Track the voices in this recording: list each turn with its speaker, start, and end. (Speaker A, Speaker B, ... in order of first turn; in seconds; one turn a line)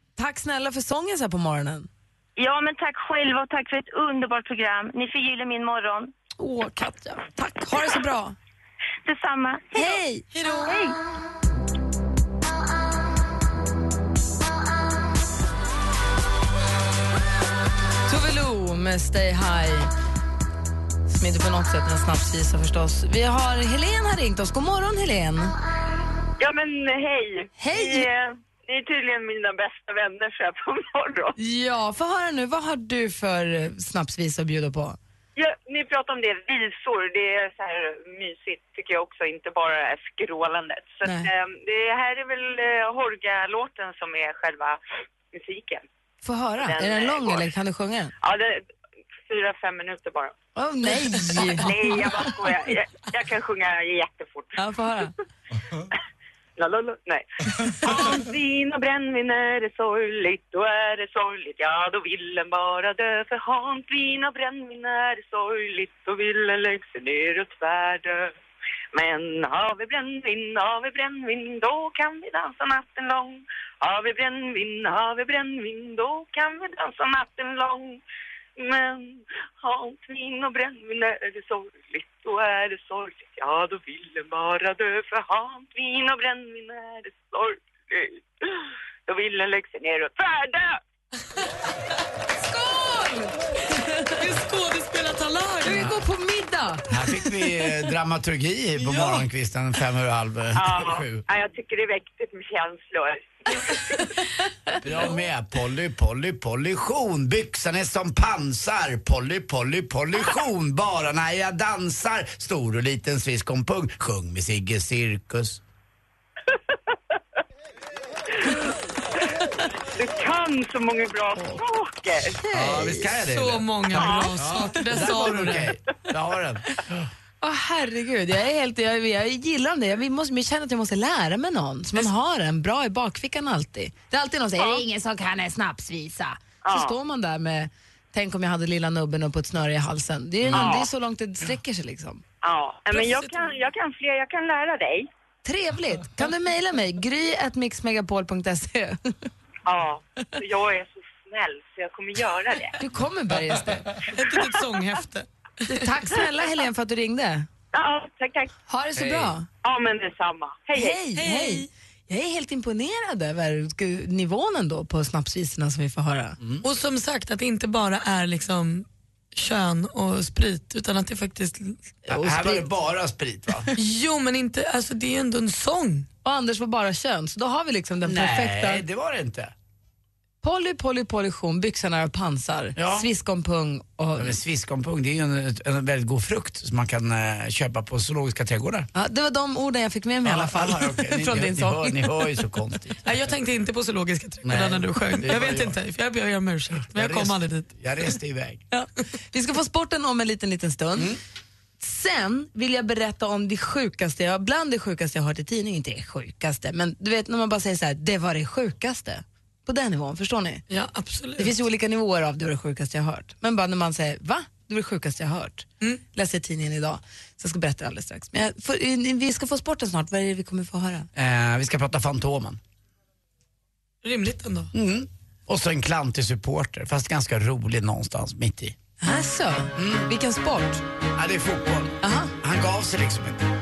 Speaker A: 0.2-1.9
Speaker B: 2.4-6.1
Speaker A: 6.4-8.3
Speaker B: 9.0-10.0
Speaker A: 9.7-10.3
Speaker C: 10.3-10.7
Speaker B: 10.6-11.0
Speaker A: 18.1-19.9
Speaker A: 21.1-25.5
Speaker D: 26.4-31.3
Speaker A: 27.6-28.1
Speaker A: 31.4-35.0
Speaker D: 35.4-44.8
Speaker A: 41.0-41.3
Speaker D: 45.3-45.8
Speaker A: 46.2-48.1
Speaker D: 46.6-47.5
Speaker D: 48.2-48.6
Speaker D: 49.2-50.4
Speaker A: 50.5-51.7
Speaker D: 51.5-54.6
Speaker A: 54.5-55.1
Speaker D: 56.6-68.3
Speaker D: 68.9-78.0
Speaker D: 78.6-90.8
Speaker A: 92.4-94.2
Speaker C: 94.1-95.9
Speaker A: 95.6-96.9
Speaker E: 96.9-101.2
Speaker C: 98.8-99.3
Speaker D: 100.5-104.0
Speaker E: 104.8-115.6
Speaker D: 119.9-122.3
Speaker A: 122.3-123.1
Speaker E: 122.5-126.9
Speaker C: 123.2-125.7
Speaker D: 123.9-124.3
Speaker A: 127.4-142.2
Speaker D: 136.6-136.9
Speaker E: 140.4-140.7
Speaker D: 140.5-140.9
Speaker D: 142.4-145.1
Speaker C: 142.9-143.5
Speaker A: 145.4-149.3
Speaker D: 149.7-152.8
Speaker A: 152.8-154.0
Speaker C: 154.1-155.9
Speaker A: 155.7-157.5
Speaker D: 157.7-158.5
Speaker A: 158.7-159.4
Speaker E: 158.9-159.3
Speaker D: 159.6-161.0
Speaker A: 160.7-166.4
Speaker C: 161.1-161.7
Speaker E: 166.4-166.7
Speaker C: 166.6-171.8
Speaker A: 172.1-172.7
Speaker E: 172.1-173.7
Speaker C: 173.7-176.1
Speaker A: 176.2-178.8
Speaker E: 178.0-179.5
Speaker A: 180.4-184.4
Speaker E: 182.8-183.1
Speaker E: 184.2-188.9
Speaker A: 188.9-192.1
Speaker E: 190.2-193.1
Speaker C: 193.0-197.7
Speaker E: 194.4-195.8
Speaker E: 196.8-198.6
Speaker A: 198.7-201.1
Speaker A: 201.8-210.6
Speaker C: 210.7-211.5
Speaker A: 211.3-221.1
Speaker E: 221.1-222.6
Speaker C: 224.0-224.7
Speaker E: 224.7-228.8
Speaker A: 229.0-230.8
Speaker E: 229.8-230.1
Speaker E: 231.2-233.5
Speaker A: 232.0-232.3